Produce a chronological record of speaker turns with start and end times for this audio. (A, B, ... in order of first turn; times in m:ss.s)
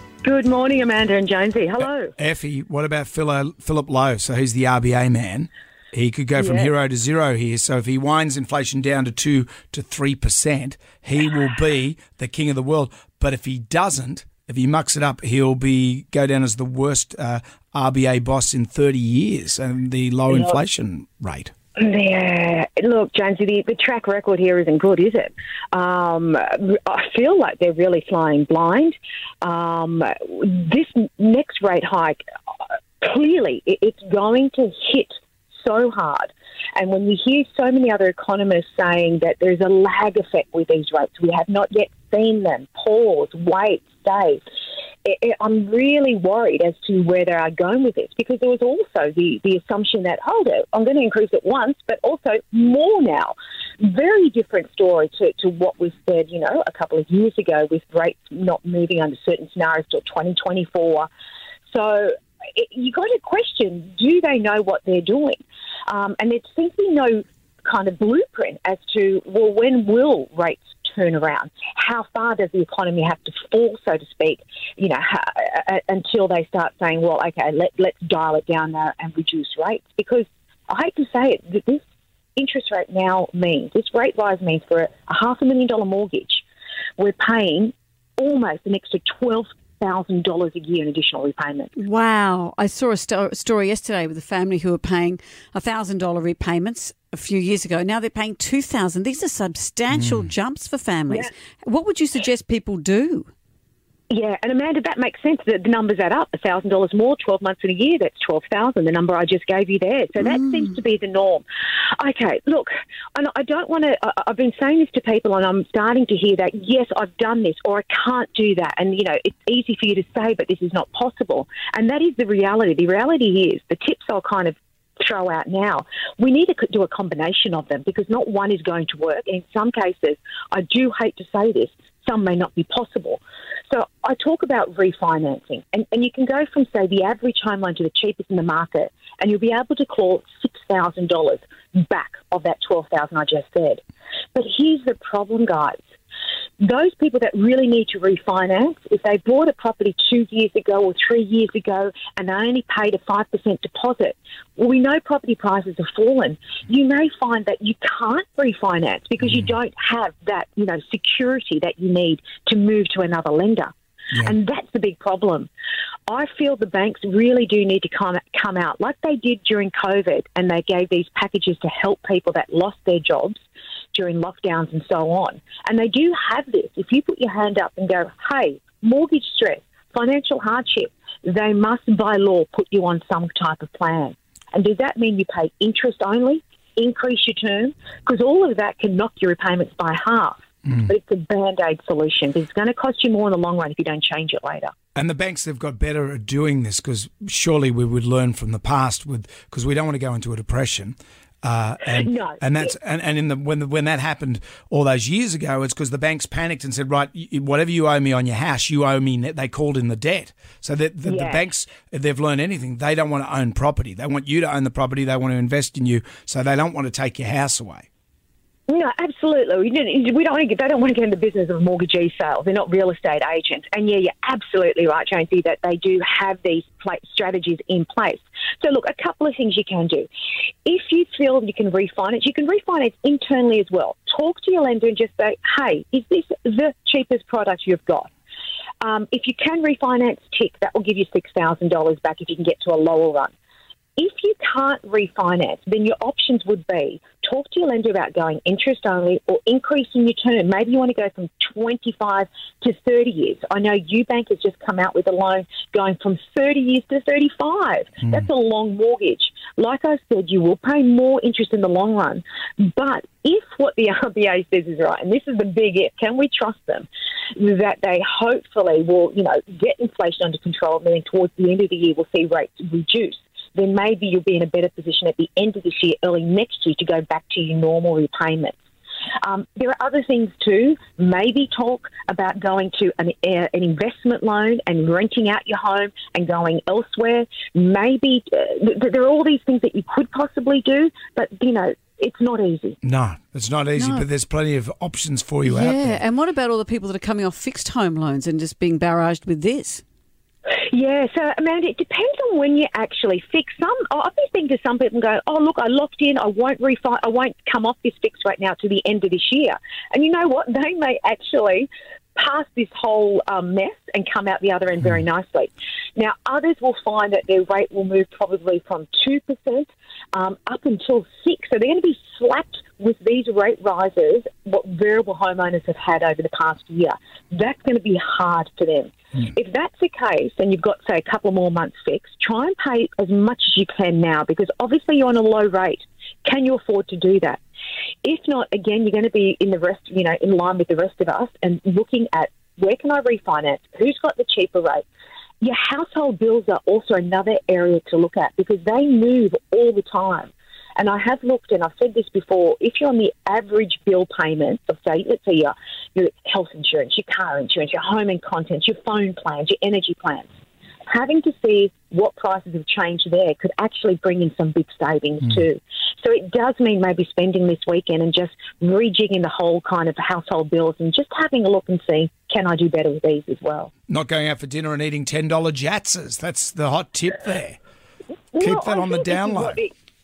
0:00.2-0:02.1 A
0:02.2-0:21.5 B
0:06.4-0:06.7 A
0:20.3-0:20.6 A
0:21.8-0:32.2 A
0:33.0-0:44.4 A
0:45.0-1:01.1 A
1:01.7-1:21.8 A
1:22.4-1:26.4 A
1:27.0-1:31.7 A
1:31.8-1:43.3 C
1:39.9-1:40.3 B
1:44.1-1:51.4 A
1:50.2-1:50.6 C
1:52.0-2:23.8 A
2:24.3-2:25.8 A
2:26.6-2:43.7 A
2:39.2-2:39.5 B
2:44.2-2:45.5 A
2:46.1-3:14.7 A
3:14.9-3:37.9 B
3:22.0-3:22.7 A
3:31.0-3:31.4 A
3:38.7-3:50.1 A
3:50.6-3:58.1 A
3:58.8-4:03.3 A
4:04.0-4:38.6 A
4:39.2-4:52.8 A
4:52.8-4:56.0 B
4:53.8-4:54.0 C
4:55.4-4:59.8 C
5:00.6-5:37.4 A
5:38.0-5:44.9 A
5:45.4-6:00.3 A
6:00.9-6:13.7 A
6:13.9-6:17.6 B
6:18.3-6:19.7 A
6:18.4-6:19.6 B